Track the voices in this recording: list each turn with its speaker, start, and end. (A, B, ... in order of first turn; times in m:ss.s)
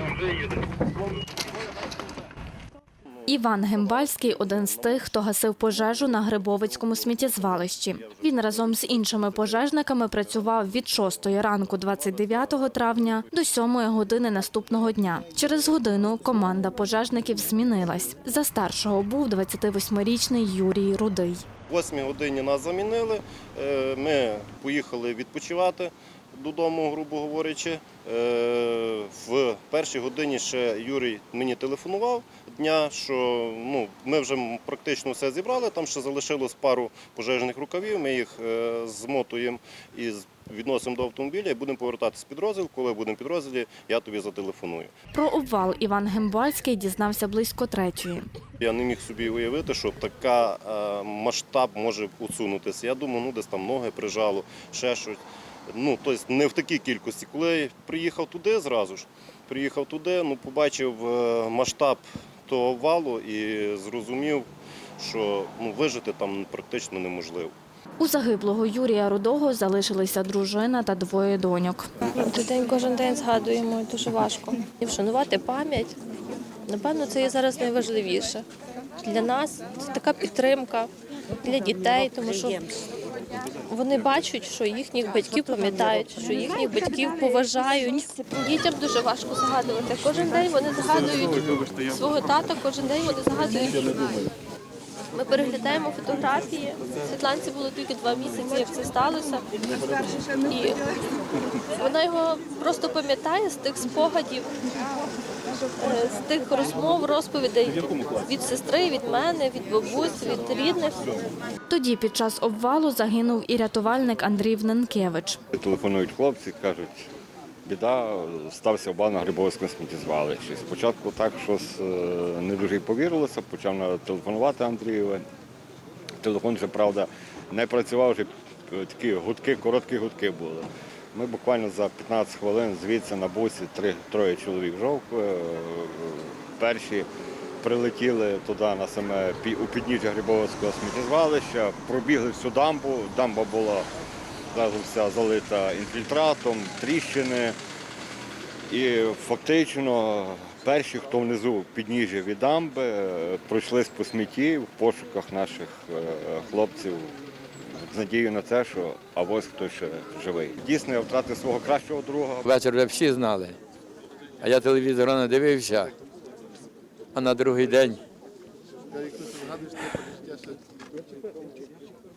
0:03.2-0:21.4 A
0:21.7-0:44.9 B
0:45.1-0:48.2 A
0:48.6-1:04.4 B
1:05.0-1:07.6 B
1:08.0-1:11.9 A
1:12.0-1:16.0 C
1:16.7-1:18.4 C
1:19.0-1:20.9 C
1:21.4-1:22.7 C
1:23.7-1:34.2 C
1:35.1-1:39.4 C
1:40.3-1:40.8 C
1:41.8-1:44.5 C
1:45.8-1:51.1 C
1:51.7-1:55.4 A
1:55.5-1:57.1 D
1:57.6-2:05.2 D
2:06.2-2:17.1 D
2:17.6-2:23.9 D
2:24.5-2:27.6 D
2:28.7-2:42.5 D
2:42.4-2:43.6 E
2:44.4-2:45.9 E
2:47.1-2:48.0 E
2:49.8-2:50.3 E